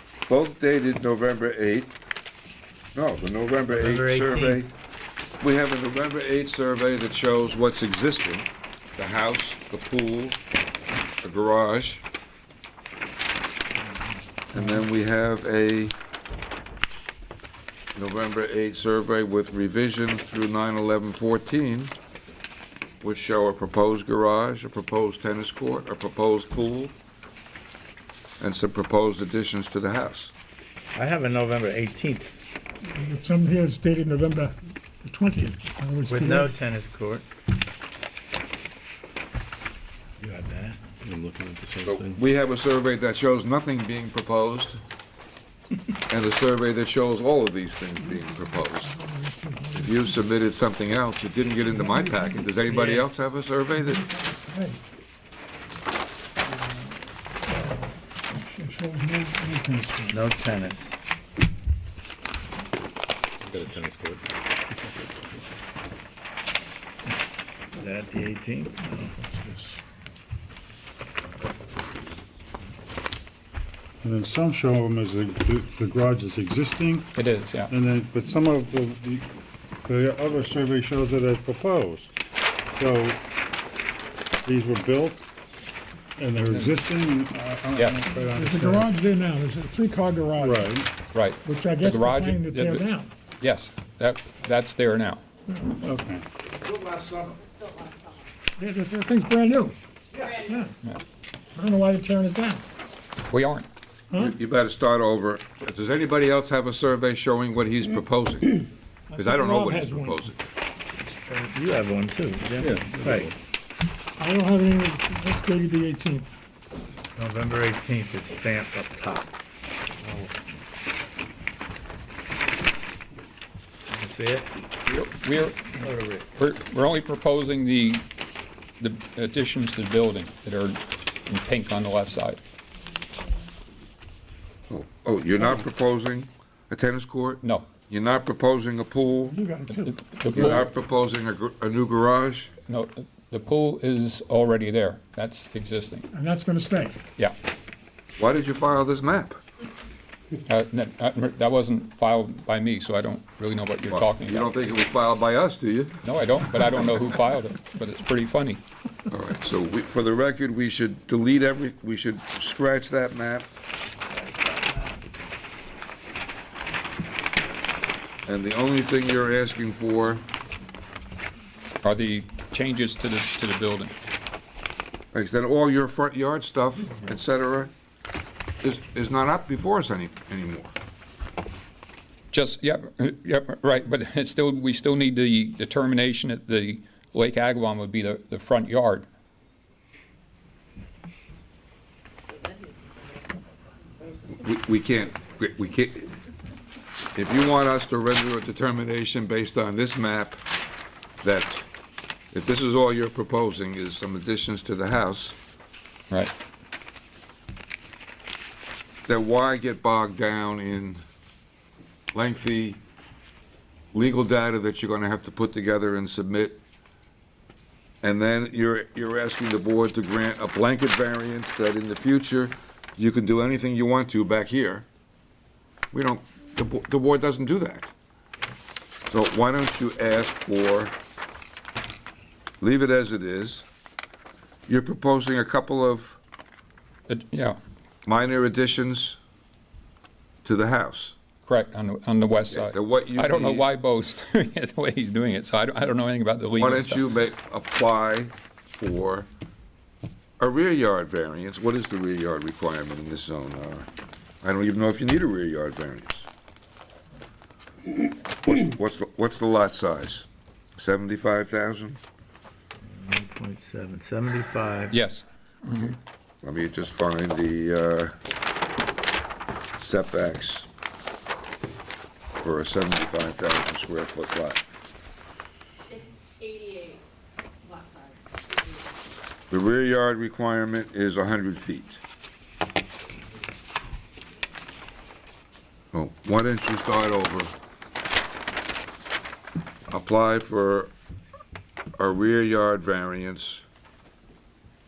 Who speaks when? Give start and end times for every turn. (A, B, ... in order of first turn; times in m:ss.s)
0:00.3-0:01.9 A
0:03.0-0:04.7 A
0:03.7-0:04.6 B
0:05.4-0:10.4 A
0:11.2-0:12.0 A
0:14.5-0:16.0 A
0:18.0-0:21.9 A
0:23.0-0:26.9 A
0:28.4-0:30.3 A
0:31.0-0:32.3 B
0:32.9-0:36.5 C
0:36.1-0:37.2 B
0:40.2-0:40.9 B
0:41.0-0:42.2 D
0:41.8-0:44.8 A
0:46.1-0:49.0 A
0:48.2-0:50.0 C
0:49.7-0:54.0 A
0:51.7-0:53.1 C
0:53.7-0:54.8 C
0:56.5-1:00.2 C
1:00.1-1:01.0 B
1:03.4-1:04.2 D
1:04.7-1:05.4 D
1:07.8-1:09.6 B
1:14.0-1:19.3 E
1:17.2-1:17.7 F
1:19.8-1:22.2 E
1:22.7-1:23.2 E
1:24.4-1:25.3 E
1:26.2-1:28.9 E
1:26.4-1:26.8 F
1:28.3-1:30.7 C
1:30.4-1:30.9 E
1:31.1-1:32.9 F
1:31.4-1:33.1 C
1:33.4-1:35.2 F
1:35.5-1:35.8 C
1:35.8-1:36.3 E
1:37.4-1:38.3 G
1:38.6-1:39.8 C
1:40.2-1:40.7 G
1:40.3-1:40.8 C
1:41.6-1:42.7 C
1:43.3-1:43.7 F
1:44.1-1:48.6 A
1:49.1-1:50.3 C
1:49.2-1:50.4 A
1:51.3-1:53.3 B
1:52.5-1:53.3 D
1:54.2-1:56.3 C
1:57.2-1:59.3 B
2:03.9-2:04.5 B
2:04.9-2:05.8 F
2:05.8-2:06.3 B
2:06.4-2:08.0 F
2:08.8-2:12.4 F
2:14.7-2:19.4 A
2:17.4-2:17.7 F
2:19.3-2:20.0 C
2:19.7-2:20.6 F
2:20.3-2:22.5 A
2:22.7-2:26.1 F
2:26.1-2:27.0 C
2:28.2-2:29.4 A
2:30.5-2:34.7 F
2:33.9-2:36.0 A
2:36.0-2:38.6 F
2:39.1-2:43.5 A
2:44.1-2:45.0 B
2:48.3-2:50.2 A
2:51.8-2:54.0 F
2:55.1-2:57.7 A
2:58.6-3:00.7 A
3:02.3-3:09.1 F
3:14.3-3:16.1 A
3:17.2-3:20.4 A
3:21.2-3:21.7 A
3:22.3-3:25.4 A
3:29.1-3:31.0 A
3:32.1-3:32.8 A
3:33.9-3:36.6 A
3:38.0-3:44.9 A
3:45.9-3:47.9 A
3:49.1-3:51.0 A
3:52.6-3:53.6 A
3:54.7-3:56.2 A
3:57.1-3:57.6 F
3:58.1-3:59.2 A
4:00.4-4:01.2 A
4:01.5-4:07.0 F
4:02.5-4:03.7 A
4:06.6-4:09.3 A
4:10.4-4:13.9 A
4:14.4-4:16.3 A
4:18.5-4:22.0 A
4:22.9-4:25.0 B
4:24.9-4:26.0 F
4:26.4-4:28.1 A
4:29.8-4:30.7 A
4:32.4-4:34.6 A
4:35.9-4:37.0 G
4:37.6-4:38.8 G
4:39.5-4:42.0 A
4:45.9-4:47.5 A
4:49.9-4:50.9 A
4:52.0-4:53.6 A